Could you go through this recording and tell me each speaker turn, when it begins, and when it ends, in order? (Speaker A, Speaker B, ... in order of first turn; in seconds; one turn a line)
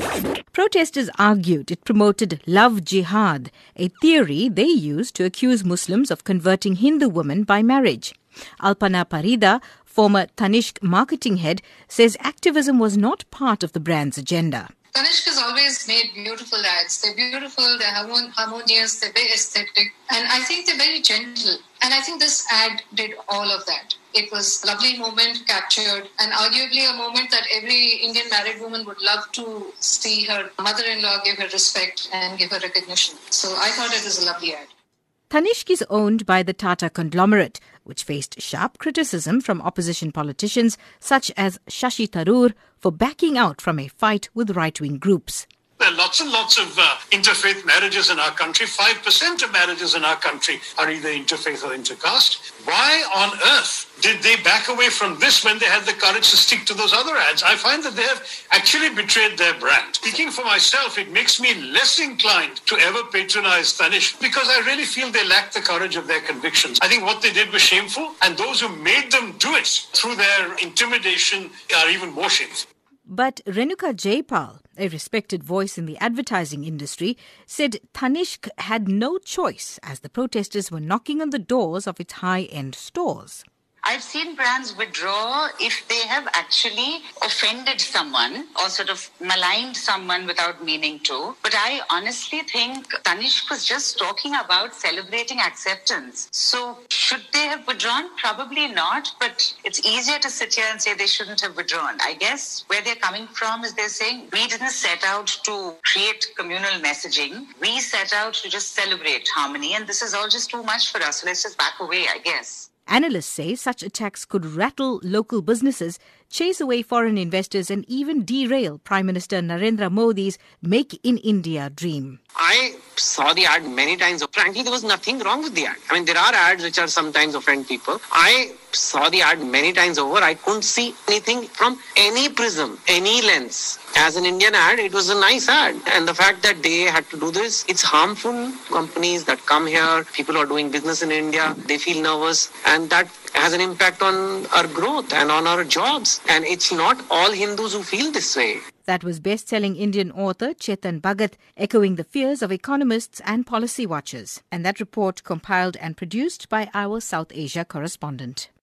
Speaker A: 0.5-14.7
Speaker B: 14.9-34.7
Speaker A: 35.3-45.5
Speaker C: 45.8-72.6
Speaker A: 73.1-83.4
Speaker D: 83.8-112.7
Speaker A: 112.9-122.2
Speaker E: 122.4-148.6
Speaker A: 148.9-158.5